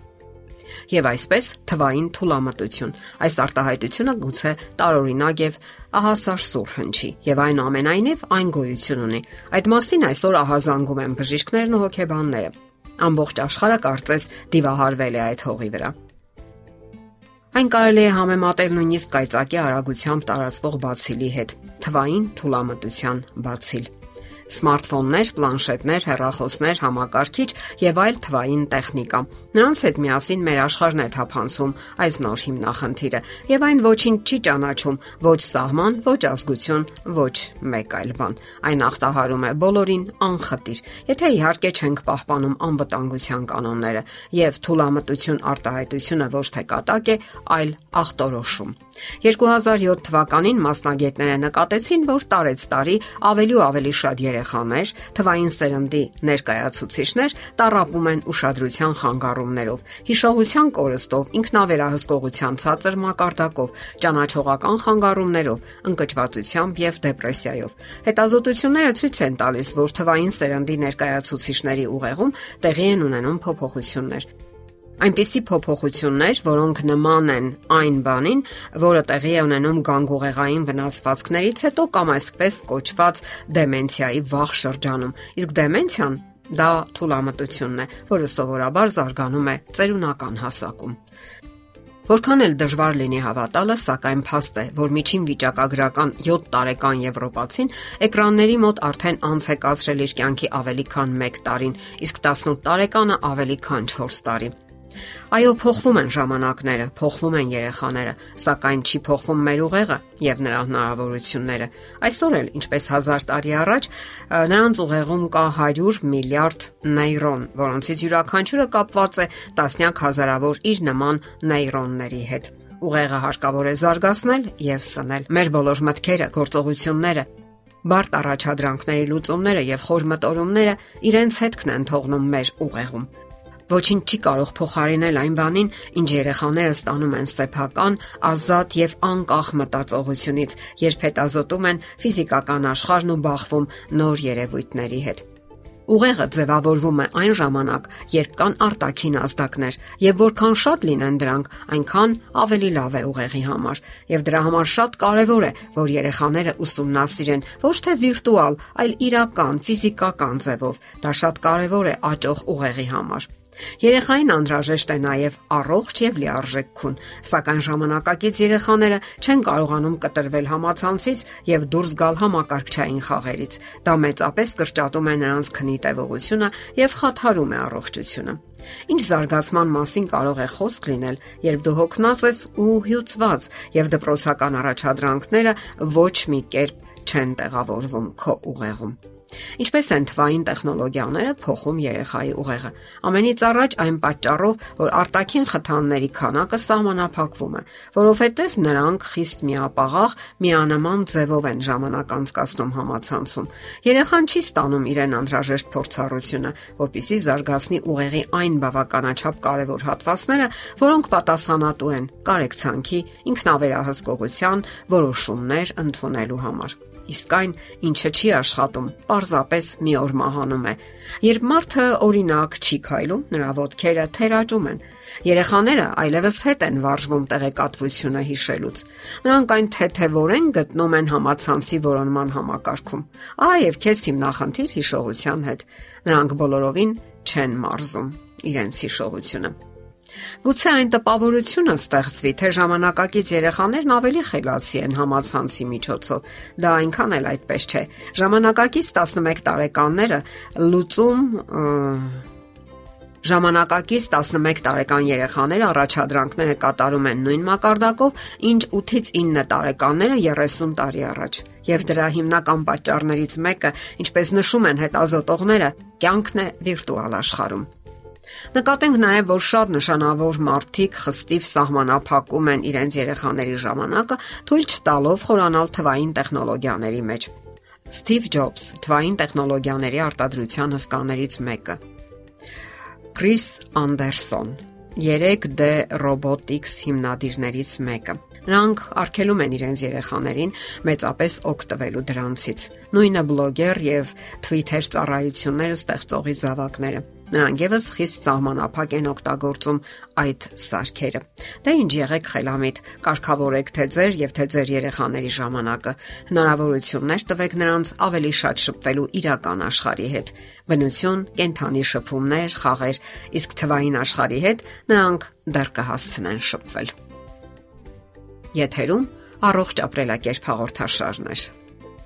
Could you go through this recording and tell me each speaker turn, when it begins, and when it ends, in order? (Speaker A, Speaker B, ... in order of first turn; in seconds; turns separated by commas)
Speaker A: 0.9-15.9, Speaker A: 17.5-23.9, Speaker A: 24.5-74.3, Speaker A: 75.0-91.0, Speaker A: 92.1-104.5, Speaker A: 105.3-127.3, Speaker A: 127.8-133.1, Speaker A: 133.7-145.2, Speaker A: 145.9-163.3, Speaker A: 163.8-189.0, Speaker A: 189.6-239.5, Speaker A: 240.4-252.2, Speaker A: 253.2-267.7, Speaker A: 268.5-277.3, Speaker A: 277.9-281.8, Speaker A: 283.1-316.9, Speaker A: 318.5-321.5